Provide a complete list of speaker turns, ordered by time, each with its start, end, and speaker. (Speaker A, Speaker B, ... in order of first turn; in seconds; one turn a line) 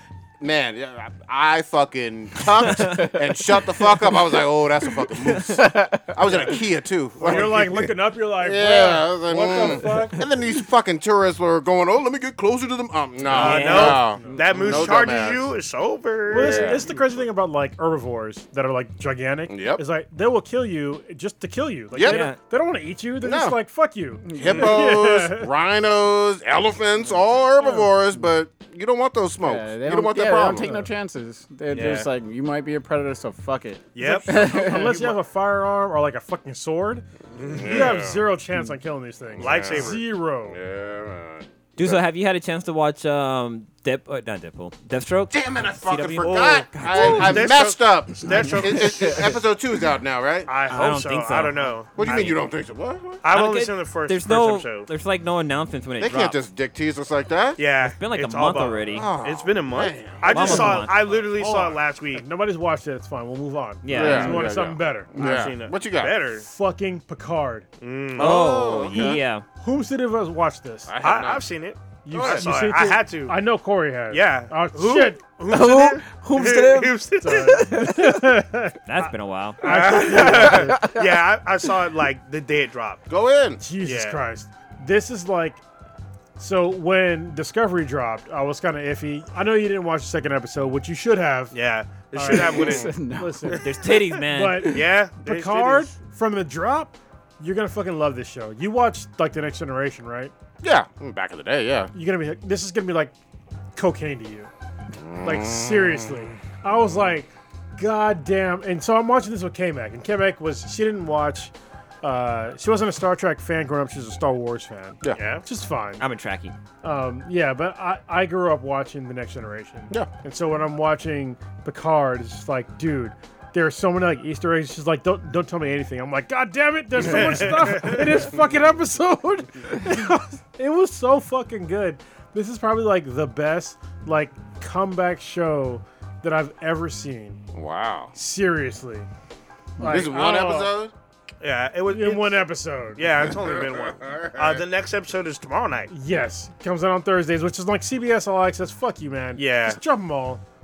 Speaker A: 0.4-15.5
Speaker B: 5.4-6.2
Speaker C: 7.2-10.2
Speaker C: 13.3-14.9
Speaker D: 13.3-16.9
Speaker E: 13.3-14.0
Speaker C: 16.3-25.5
Speaker A: 16.3-17.2
Speaker A: 19.5-19.8
Speaker A: 21.9-22.2
Speaker E: 22.1-22.4
Speaker A: 23.2-23.6
Speaker B: 24.2-24.7
Speaker A: 24.4-30.7
Speaker B: 29.4-35.0
Speaker C: 30.6-30.9
Speaker D: 31.7-32.1
Speaker D: 34.0-34.8
Speaker C: 34.3-37.0
Speaker A: 37.4-38.2
Speaker D: 37.4-38.0
Speaker C: 37.6-40.6
Speaker A: 39.4-39.9
Speaker D: 39.4-40.0
Speaker A: 40.5-42.0
Speaker E: 41.8-47.5
Speaker A: 45.3-50.5
Speaker D: 46.9-49.4
Speaker D: 50.5-52.4
Speaker E: 50.7-51.8
Speaker A: 52.0-53.2
Speaker D: 53.2-54.9
Speaker E: 53.3-56.4
Speaker A: 56.0-57.6
Speaker D: 57.6-62.2
Speaker E: 57.8-59.1
Speaker A: 58.9-60.6
Speaker E: 60.2-60.9
Speaker C: 60.3-65.1
Speaker E: 63.8-64.5
Speaker A: 63.9-66.2
Speaker D: 65.2-66.5
Speaker C: 66.4-67.7
Speaker D: 67.8-68.6
Speaker A: 68.2-69.2
Speaker E: 68.2-69.5
Speaker C: 69.6-70.9
Speaker A: 70.9-71.5
Speaker D: 71.0-73.4
Speaker C: 72.0-75.2
Speaker A: 72.1-72.5
Speaker D: 74.1-77.7
Speaker B: 75.5-78.3
Speaker C: 77.2-80.8
Speaker E: 78.9-79.6
Speaker D: 79.6-83.0
Speaker B: 80.3-81.1
Speaker A: 83.1-83.6
Speaker C: 83.6-85.6
Speaker D: 83.8-84.2
Speaker C: 86.4-91.6
Speaker D: 91.5-92.9
Speaker C: 92.1-93.6
Speaker B: 92.3-93.6
Speaker E: 93.6-94.8
Speaker C: 94.2-100.3
Speaker D: 94.7-95.9
Speaker A: 100.6-101.9
Speaker C: 101.9-103.1
Speaker C: 103.8-104.5
Speaker A: 105.0-106.2
Speaker C: 105.2-116.0
Speaker D: 115.1-115.5
Speaker E: 116.0-116.6
Speaker C: 116.8-137.4
Speaker D: 127.1-128.0
Speaker A: 137.5-138.1
Speaker C: 138.1-139.1
Speaker C: 139.8-140.7
Speaker A: 139.8-140.9
Speaker D: 141.4-142.4
Speaker C: 141.9-143.1
Speaker D: 143.0-145.9
Speaker A: 143.2-144.6
Speaker C: 145.9-150.4
Speaker D: 149.4-149.8